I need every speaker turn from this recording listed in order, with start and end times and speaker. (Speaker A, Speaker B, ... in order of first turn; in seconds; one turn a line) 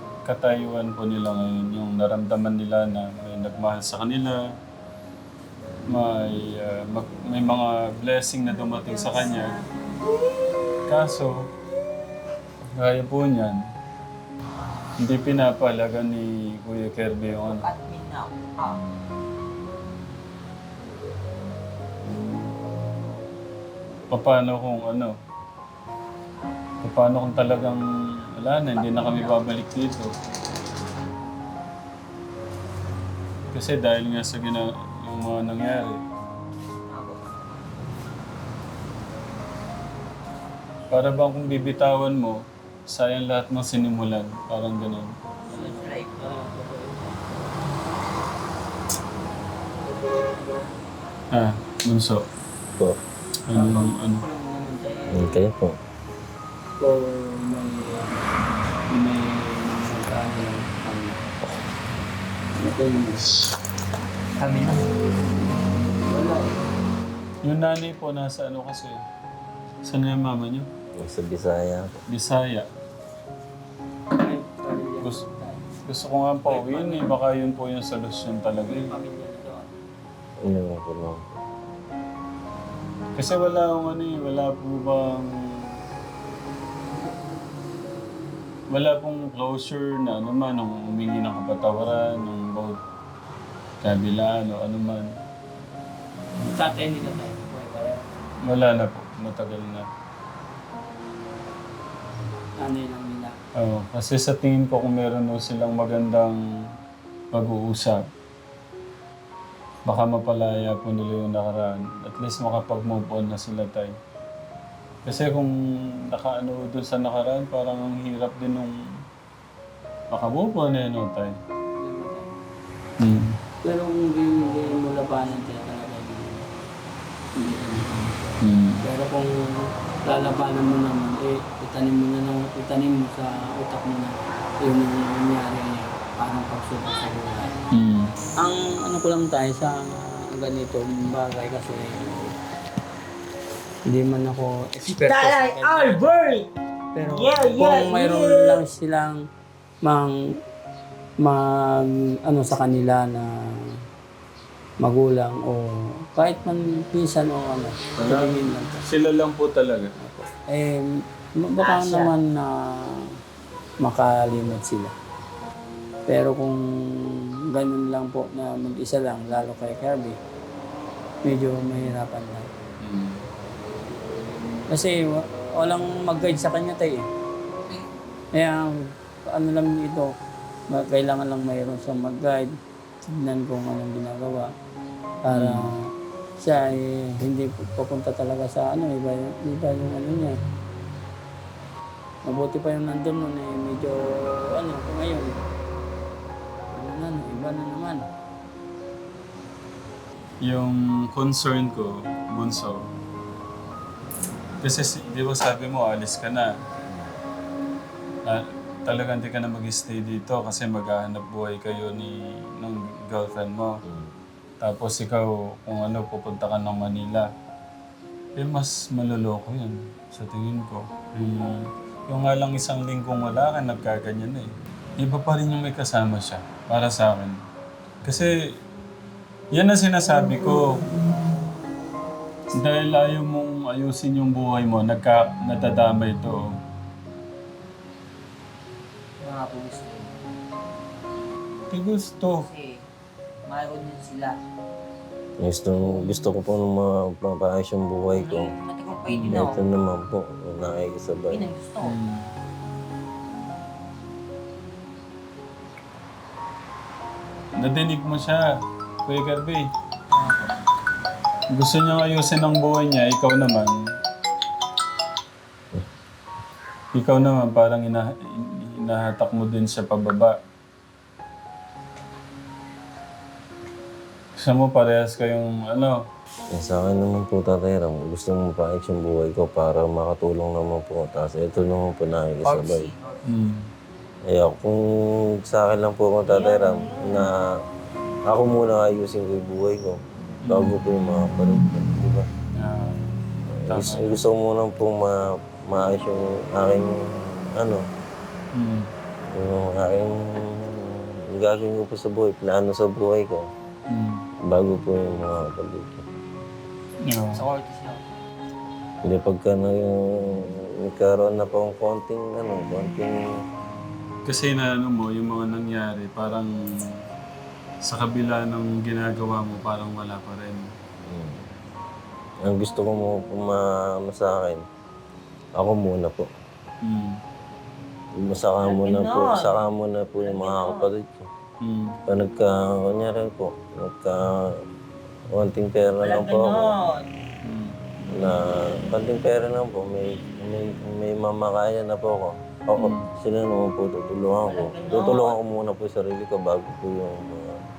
Speaker A: 0.2-4.4
Speaker A: 5.9-9.6
Speaker B: 8.6-9.8
Speaker A: 10.9-11.3
Speaker A: 12.8-13.6
Speaker A: 15.0-17.6
Speaker B: 17.4-18.8
Speaker A: 24.1-25.1
Speaker A: 26.8-27.8
Speaker A: 28.4-30.1
Speaker B: 28.7-29.4
Speaker A: 33.5-36.0
Speaker B: 36.9-37.4
Speaker A: 40.9-42.4
Speaker A: 42.9-45.1
Speaker C: 45.5-47.2
Speaker B: 45.5-46.3
Speaker C: 50.0-50.6
Speaker A: 51.3-52.2
Speaker A: 53.5-54.2
Speaker C: 53.5-55.4
Speaker D: 55.1-55.8
Speaker C: 56.8-58.2
Speaker C: 58.9-61.2
Speaker C: 62.6-63.3
Speaker B: 64.4-64.8
Speaker C: 66.0-66.5
Speaker A: 67.4-69.0
Speaker A: 69.8-70.7
Speaker D: 71.0-72.0
Speaker A: 72.1-72.7
Speaker C: 74.1-75.6
Speaker A: 75.8-78.8
Speaker C: 76.4-77.1
Speaker C: 78.6-79.7
Speaker D: 80.4-81.2
Speaker A: 83.2-85.3
Speaker A: 88.7-92.8
Speaker A: 93.8-95.1
Speaker C: 96.4-98.1
Speaker A: 98.5-99.8
Speaker C: 102.6-103.4
Speaker A: 103.6-106.4
Speaker A: 107.3-108.0
Speaker A: 109.8-113.9
Speaker A: 115.0-115.5
Speaker A: 116.1-118.7
Speaker A: 120.1-121.3
Speaker C: 121.8-122.3
Speaker A: 123.0-123.3
Speaker C: 123.6-126.4
Speaker C: 127.3-128.1
Speaker A: 128.4-128.8
Speaker C: 128.8-137.5
Speaker A: 137.7-138.1
Speaker C: 138.4-142.3
Speaker C: 143.9-146.1
Speaker B: 144.9-146.5
Speaker C: 146.9-149.2
Speaker B: 147.0-148.6
Speaker C: 149.8-150.1
Speaker C: 151.2-153.3
Speaker C: 154.8-158.8
Speaker A: 158.0-158.3
Speaker A: 158.8-159.9
Speaker C: 160.0-160.8
Speaker C: 161.4-162.5
Speaker B: 161.6-162.1
Speaker C: 163.8-164.9
Speaker C: 166.1-166.6
Speaker C: 167.5-170.2
Speaker C: 171.2-172.5
Speaker A: 172.8-173.2
Speaker C: 174.7-175.0
Speaker C: 175.6-177.0
Speaker C: 178.3-178.7
Speaker C: 179.3-180.1
Speaker C: 180.7-182.5
Speaker C: 183.1-184.5
Speaker C: 185.2-185.8
Speaker A: 185.3-185.6
Speaker C: 186.4-190.3
Speaker C: 192.2-195.4
Speaker C: 196.7-198.1
Speaker A: 200.4-202.8
Speaker A: 204.6-206.5
Speaker D: 206.9-207.2
Speaker A: 208.2-213.7
Speaker D: 213.8-214.1
Speaker A: 214.6-217.2
Speaker A: 218.3-227.4
Speaker A: 228.0-228.3
Speaker A: 229.5-230.7
Speaker A: 232.6-236.5
Speaker B: 239.2-240.1
Speaker A: 241.7-242.4
Speaker B: 242.4-242.8
Speaker B: 243.5-244.4
Speaker D: 245.4-248.5
Speaker B: 248.1-249.6
Speaker A: 249.1-249.5
Speaker D: 249.3-251.5
Speaker B: 251.3-251.9
Speaker A: 251.8-252.3
Speaker A: 257.6-258.4
Speaker A: 259.1-259.7
Speaker B: 260.1-260.5
Speaker A: 261.5-263.7
Speaker A: 266.9-270.4
Speaker A: 274.4-276.0
Speaker D: 276.5-282.9
Speaker B: 282.4-283.2
Speaker A: 283.3-283.7
Speaker D: 284.3-287.6
Speaker B: 286.3-287.2
Speaker D: 288.3-292.3
Speaker A: 290.4-290.7
Speaker A: 292.6-294.2
Speaker D: 293.6-297.8
Speaker A: 298.5-298.9
Speaker D: 299.3-303.5
Speaker A: 303.9-304.2
Speaker D: 304.5-306.0
Speaker A: 307.1-307.4
Speaker B: 307.3-308.0
Speaker D: 309.0-313.2
Speaker A: 314.2-317.0
Speaker A: 317.8-320.7
Speaker D: 321.1-321.4
Speaker D: 322.4-324.6
Speaker D: 325.6-326.3
Speaker A: 326.8-327.2
Speaker D: 328.2-331.3
Speaker B: 328.6-329.6
Speaker B: 330.1-330.9
Speaker A: 331.6-332.0
Speaker D: 332.1-334.6
Speaker D: 335.3-336.7
Speaker B: 336.0-337.0
Speaker A: 337.4-337.8
Speaker D: 338.1-347.6
Speaker A: 342.8-343.1
Speaker B: 344.4-345.4